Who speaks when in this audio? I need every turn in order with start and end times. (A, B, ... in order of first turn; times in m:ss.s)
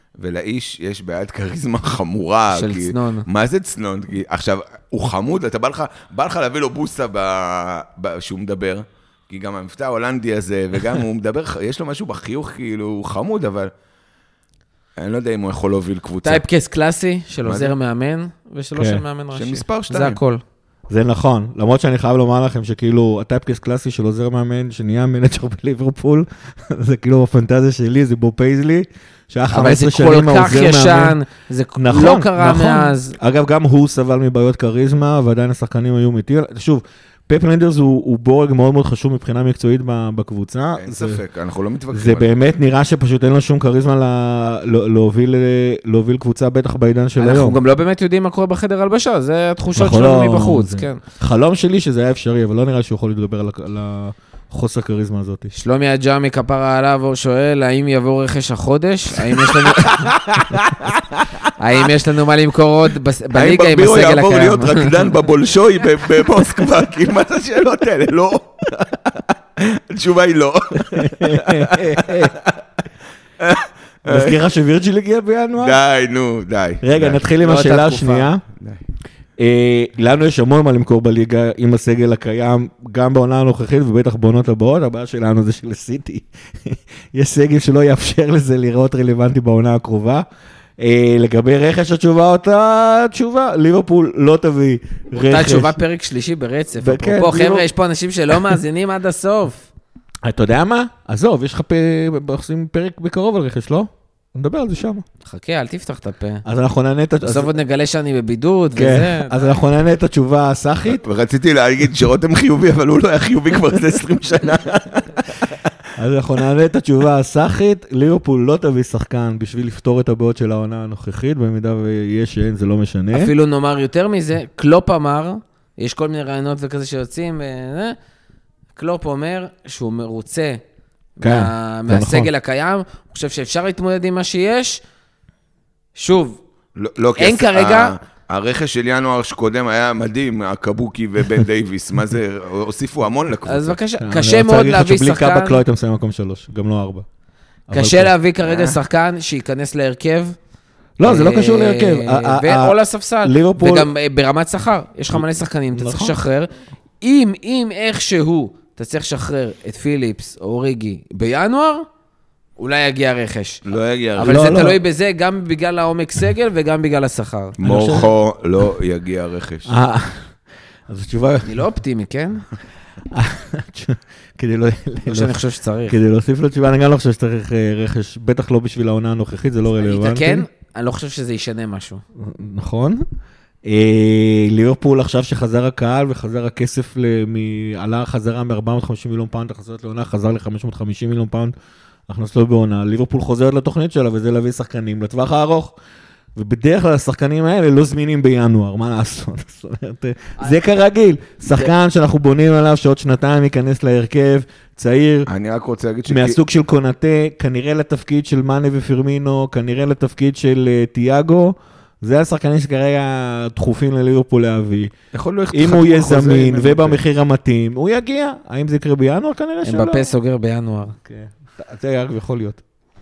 0:00.2-0:13.7 A
0:02.5-0:03.3 B
0:15.0-0:16.4 A
0:16.2-0:20.4 B
0:17.4-0:17.8 A
0:18.8-0:19.0 C
0:19.3-0:20.2 A
0:20.9-0:31.2 C
0:29.5-0:33.2 B
0:31.8-0:41.2 C
0:40.8-0:42.3 A
0:41.9-0:47.6 C
0:47.2-0:51.0 B
0:49.8-0:55.5 C
0:55.5-1:00.2 B
1:01.6-1:05.0 B
1:03.3-1:12.6 A
1:10.9-1:12.4 C
1:13.4-1:14.4 A
1:14.1-1:15.8 C
1:15.6-1:17.3 A
1:16.8-1:18.4 C
1:17.4-1:18.3 B
1:18.6-1:18.8 A
1:19.4-1:30.3 C
1:30.8-1:35.8 C
1:35.2-1:39.7 B
1:36.8-1:37.7 C
1:40.2-1:45.0 C
1:45.2-1:46.4 B
1:46.4-1:47.5 C
1:47.2-1:49.5 B
1:48.7-1:51.0 C
1:50.9-1:55.7 A
1:56.0-2:03.3 C
2:03.1-2:08.0 B
2:08.8-2:10.6 B
2:11.2-2:14.8 B
2:11.2-2:12.3 C
2:16.0-2:16.4 B
2:16.8-2:23.8 A
2:17.2-2:18.0 B
2:23.5-2:25.6 B
2:24.0-2:27.1 C
2:27.7-2:28.1 C
2:27.7-2:30.4 B
2:28.4-2:28.8 A
2:31.0-2:33.9 C
2:31.0-2:41.9 B
2:35.1-2:36.2 C
2:42.6-2:43.6 B
2:43.6-2:44.5 A
2:44.2-2:47.6 B
2:44.2-2:44.8 C
2:47.6-2:49.7 A
2:47.6-2:48.1 C
2:49.7-2:50.3 C
2:50.9-2:51.6 C
2:51.4-2:52.4 B
2:53.1-3:00.4 C
2:55.1-2:56.0 B
2:59.8-3:02.0 B
3:02.2-3:03.0 C
3:03.6-3:11.5 C
3:12.1-3:15.8 C
3:16.4-3:25.3 C
3:25.3-3:26.4 A
3:26.1-3:34.9 C
3:35.1-3:37.0 A
3:35.5-3:40.1 C
3:39.6-3:41.0 B
3:41.0-3:42.6 C